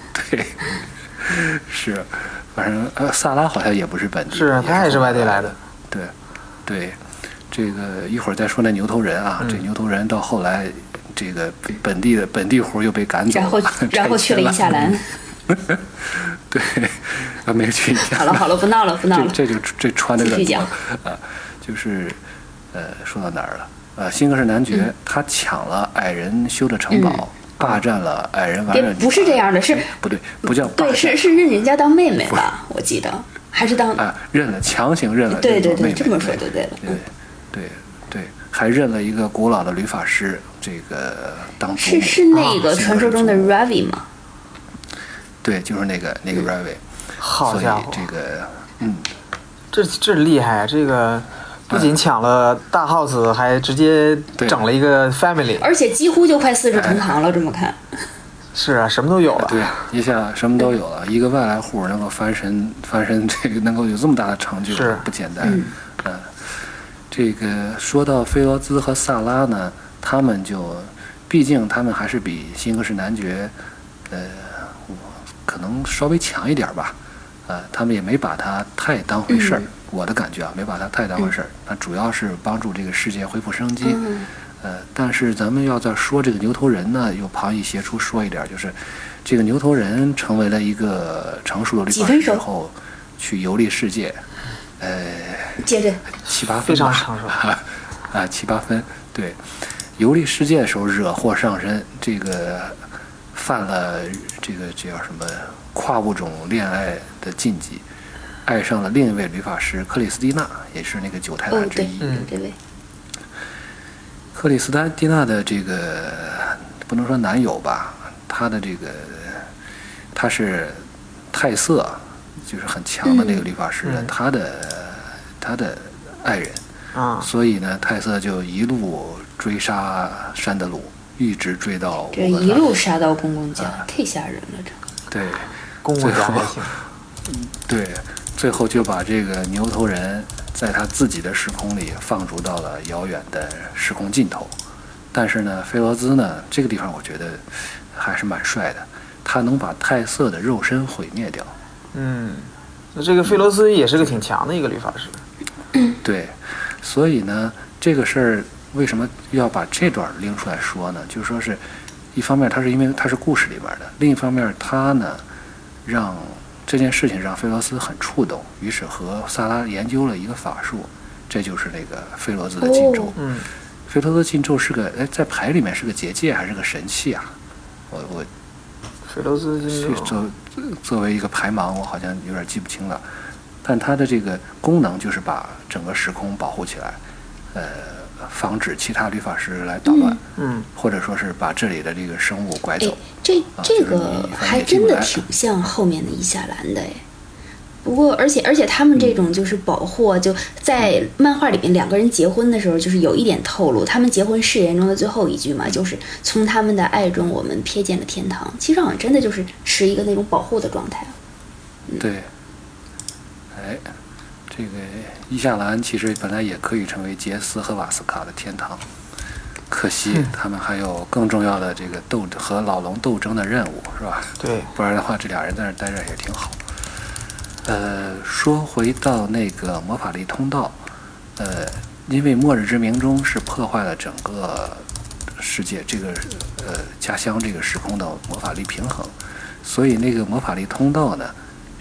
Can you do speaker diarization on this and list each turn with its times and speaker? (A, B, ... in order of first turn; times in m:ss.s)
0:00.1-0:06.1 A
0:04.3-0:05.6 B
0:06.6-0:07.0 A
0:07.5-0:15.0 A
0:13.3-0:15.1 C
0:15.5-0:18.5 A
0:18.0-0:19.4 C
0:19.1-0:22.2 A
0:20.2-0:20.7 C
0:22.7-0:31.4 A
0:26.9-0:27.2 C
0:28.7-0:29.9 C
0:30.5-0:34.0 C
0:34.0-0:43.6 A
0:35.3-0:37.0 C
0:41.8-0:44.0 C
0:42.3-0:42.6 B
0:45.4-0:46.8 A
0:47.2-0:48.0 B
0:47.4-0:49.1 A
0:49.7-0:55.7 B
0:54.4-0:54.6 A
0:55.6-0:57.8 C
0:56.7-0:57.1 A
0:58.5-0:59.6 B
0:59.3-1:06.6 A
1:04.7-1:05.1 B
1:05.4-1:05.7 C
1:07.1-1:13.5 A
1:14.1-1:24.0 A
1:19.3-1:19.6 C
1:23.8-1:24.3 C
1:24.6-1:34.2 A
1:31.9-1:32.4 C
1:34.8-1:35.7 A
1:35.6-1:36.0 C
1:36.2-1:39.4 A
1:36.6-1:37.4 B
1:40.0-1:47.8 A
1:48.4-1:52.2 A
1:51.5-1:52.6 C
1:52.0-1:52.3 B
1:54.3-1:59.5 A
2:00.1-2:06.6 A
2:03.0-2:03.4 C
2:03.8-2:04.1 B
2:06.9-2:07.3 B
2:07.2-2:12.8 A
2:12.1-2:14.8 C
2:13.6-2:13.8 A
2:15.1-2:16.6 A
2:15.8-2:16.7 B
2:17.3-2:24.5 A
2:25.1-2:31.5 A
2:31.9-2:35.2 B
2:36.0-2:41.6 A
2:42.1-2:45.2 A
2:45.8-2:53.2 A
2:52.6-2:53.1 C
2:53.2-2:53.5 B
2:53.9-2:57.3 A
2:57.9-2:58.3 A
2:59.1-3:00.2 B
2:59.7-3:03.0 A
3:03.6-3:07.0 A
3:07.5-3:10.2 A
3:09.9-3:10.2 C
3:10.4-3:10.7 B
3:10.7-3:13.0 A
3:12.8-3:17.0 C
3:13.6-3:15.2 A
3:17.8-3:31.1 C
3:32.0-3:32.3 A
3:33.5-3:33.9 A
3:34.5-3:38.8 A
3:39.7-3:46.6 A
3:44.4-3:44.7 B
3:47.6-3:50.8 A
3:51.4-3:54.8 A
3:55.4-4:01.3 A